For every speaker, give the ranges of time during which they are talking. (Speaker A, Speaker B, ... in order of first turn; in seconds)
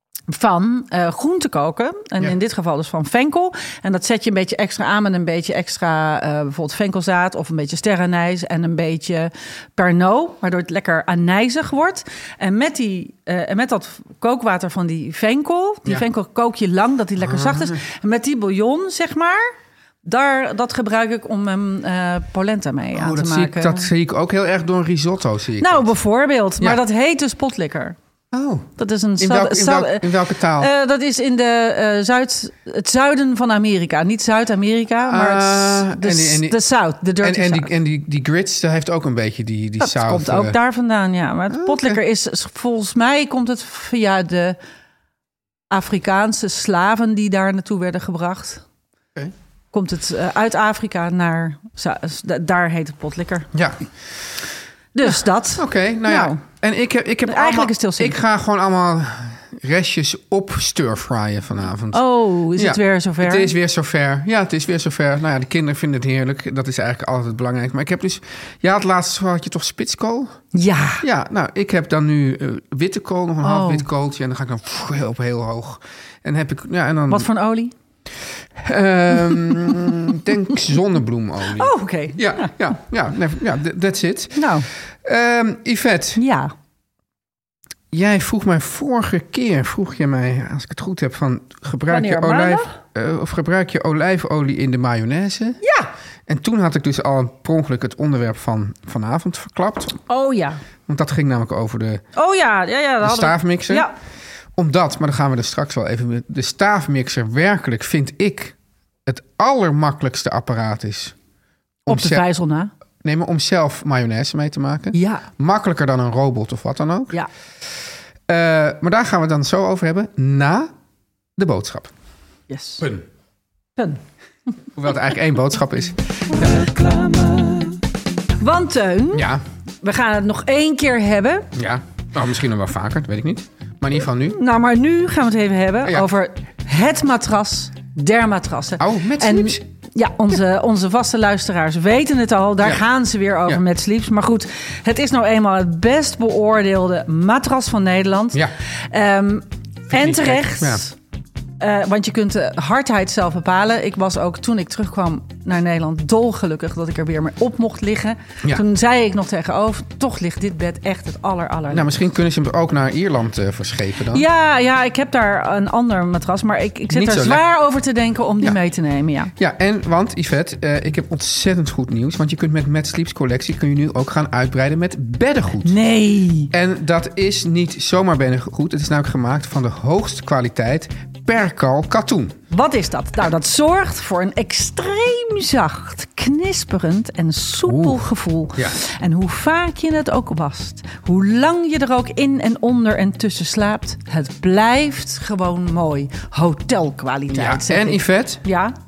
Speaker A: 0.3-19.5, 20.0-23.9, 25.6-27.9, 28.8-37.7, 39.8-44.6, 45.7-48.6, 49.7-53.5, 54.9-56.4, 57.2-58.2, 61.9-63.5, 70.5-71.0, 73.4-73.8, 77.1-77.7, 79.3-80.0, 81.5-82.5, 84.3-84.7, 86.2-86.5, 91.9-92.7, 95.6-95.9, 100.1-100.6, 102.1-103.9, 111.8-112.7, 114.9-115.3, 122.5-122.9, 123.8-124.0, 126.4-127.8, 128.4-129.3, 129.8-131.5, 134.3-150.9, 151.6-161.9, 164.1-169.3, 175.6-176.5, 182.5-198.7
Speaker B: 17.2-17.8, 22.9-25.9, 28.3-30.7, 35.1-36.6, 37.2-40.6, 41.5-42.0, 53.5-53.8, 55.5-70.4, 71.0-77.3, 78.5-86.2, 87.9-95.6, 96.3-100.0, 100.9-102.0, 103.0-103.9, 104.5-111.1, 111.9-112.2, 113.0-117.2, 118.3-120.7, 121.4-121.9, 124.7-126.7, 129.1-129.4, 131.5-134.4, 135.8-136.1, 138.8-139.6, 149.9-150.8, 161.7-164.2, 166.9-167.4, 169.3-175.8, 176.5-182.4, 187.7-188.0, 197.3-198.4